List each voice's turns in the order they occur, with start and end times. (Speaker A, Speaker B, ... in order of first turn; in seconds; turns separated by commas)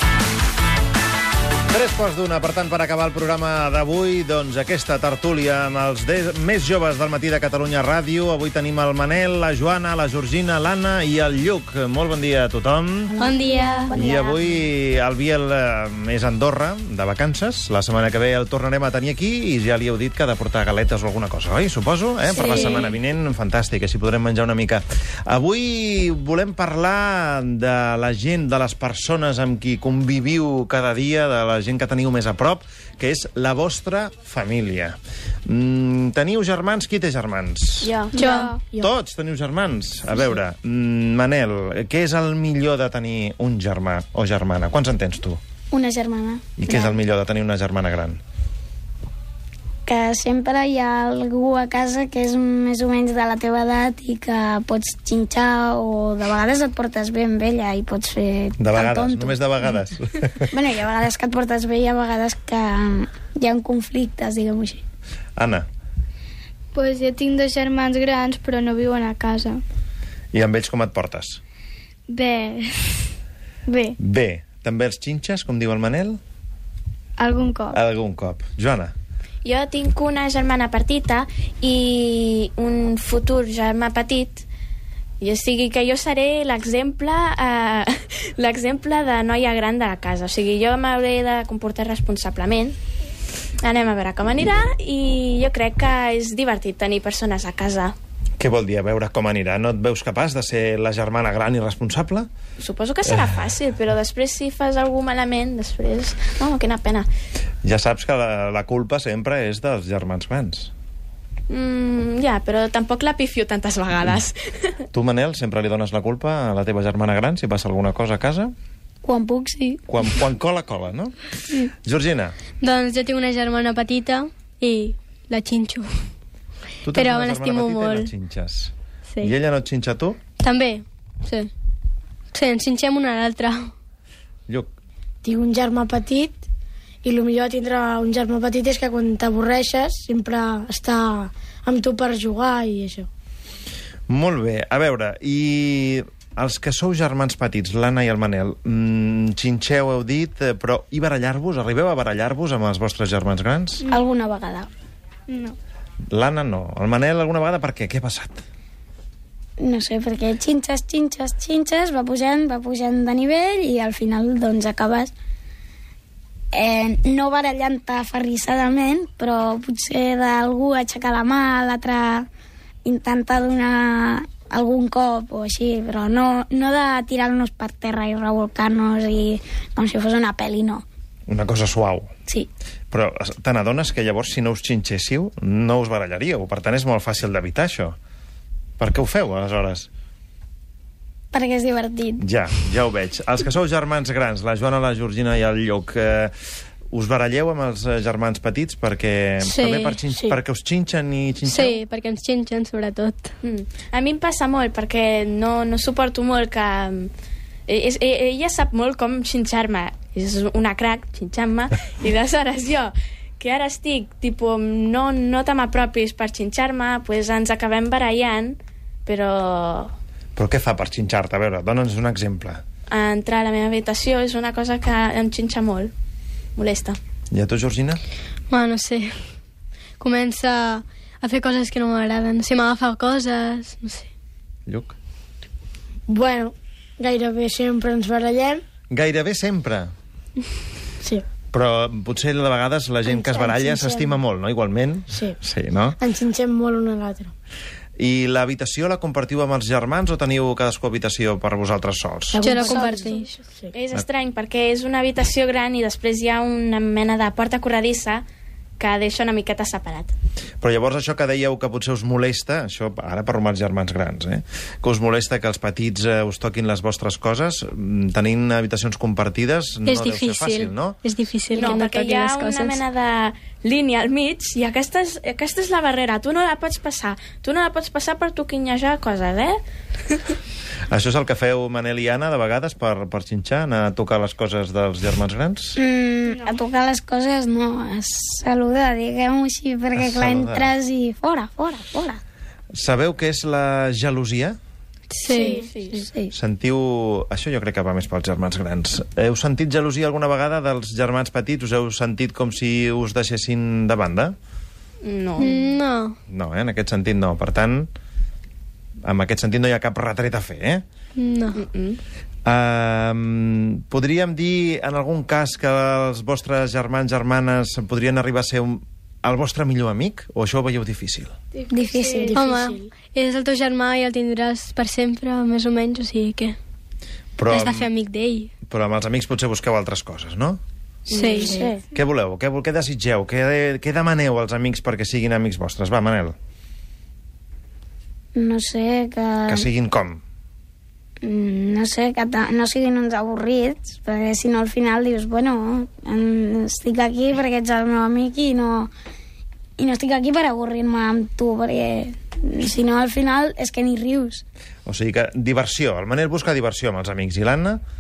Speaker A: 1.7-13.2, Speaker B: 13.1-14.3, Speaker C: 13.2-13.9, Speaker A: 13.9-38.0, Speaker C: 22.3-22.9, Speaker D: 37.8-38.2, Speaker E: 38.1-38.6, Speaker C: 38.2-38.5, Speaker A: 38.8-45.4, Speaker B: 45.7-46.9, Speaker A: 46.6-48.2, Speaker B: 49.9-59.7, Speaker A: 58.6-60.5, Speaker B: 60.5-64.8, Speaker A: 65.4-65.7, Speaker E: 66.8-69.6, Speaker A: 70.3-71.4, Speaker E: 72.1-73.1, Speaker E: 73.7-74.0, Speaker A: 74.0-76.2, Speaker E: 77.2-77.8, Speaker A: 77.7-79.0, Speaker D: 79.4-84.5, Speaker D: 85.2-92.8, Speaker D: 93.6-98.0, Speaker A: 98.4-102.3, Speaker D: 102.6-107.1, Speaker A: 107.6-110.7, Speaker D: 111.5-114.8, Speaker A: 114.9-118.5, Speaker B: 119.0-119.8, Speaker A: 119.9-121.2, Speaker A: 121.8-122.3, Speaker C: 122.6-126.0, Speaker A: 126.8-130.2, Speaker C: 126.9-128.1, Speaker C: 129.1-129.3, Speaker C: 130.4-131.5, Speaker C: 132.3-133.7, Speaker A: 134.5-134.8, Speaker F: 135.2-136.4, Speaker F: 137.0-143.1, Speaker A: 144.1-153.9, Speaker B: 153.9-154.7, Speaker E: 155.3-155.6, Speaker A: 156.1-158.4, Speaker B: 159.6-165.1, Speaker B: 166.5-172.3, Speaker B: 172.8-180.8, Speaker A: 181.3-182.1, Speaker A: 182.9-188.0, Speaker A: 188.8-189.9, Speaker B: 191.3-192.2, Speaker A: 192.2-196.3, Speaker A: 196.9-201.8, Speaker C: 199.4-200.0, Speaker C: 201.4-203.3, Speaker D: 203.4-207.1, Speaker D: 207.7-219.9, Speaker A: 220.4-222.6, Speaker D: 222.9-225.9, Speaker D: 226.6-227.0, Speaker A: 227.3-228.0, Speaker C: 228.5-229.2, Speaker C: 230.0-234.1, Speaker A: 234.7-235.0, Speaker F: 236.1-238.6, Speaker A: 238.9-239.9, Speaker A: 241.5-246.0, Speaker F: 243.1-244.2, Speaker F: 246.0-247.3, Speaker A: 248.0-252.4, Speaker F: 252.3-253.7, Speaker C: 252.4-253.3, Speaker D: 253.7-258.2, Speaker D: 258.8-260.1, Speaker A: 260.6-271.0, Speaker C: 269.9-272.8, Speaker D: 271.5-279.6, Speaker A: 280.9-285.8, Speaker B: 285.8-292.2, Speaker E: 286.3-286.6, Speaker A: 290.0-290.7, Speaker A: 292.7-294.6, Speaker C: 295.1-296.3, Speaker E: 295.4-295.7, Speaker D: 295.4-296.0, Speaker A: 296.3-304.4, Speaker D: 305.0-305.6, Speaker C: 305.4-306.2, Speaker A: 306.3-307.9, Speaker A: 309.0-310.8, Speaker C: 311.2-311.6, Speaker D: 311.6-312.0, Speaker A: 312.5-321.3, Speaker E: 321.6-322.4, Speaker C: 321.7-326.6, Speaker F: 322.0-322.9, Speaker A: 327.4-327.9, Speaker C: 327.5-328.5, Speaker A: 328.7-330.6, Speaker D: 331.1-331.7, Speaker C: 331.1-331.7, Speaker B: 331.3-331.8, Speaker A: 331.9-336.4, Speaker B: 338.4-339.7, Speaker A: 339.5-340.2, Speaker B: 341.2-348.9, Speaker B: 349.8-354.4, Speaker A: 354.9-357.8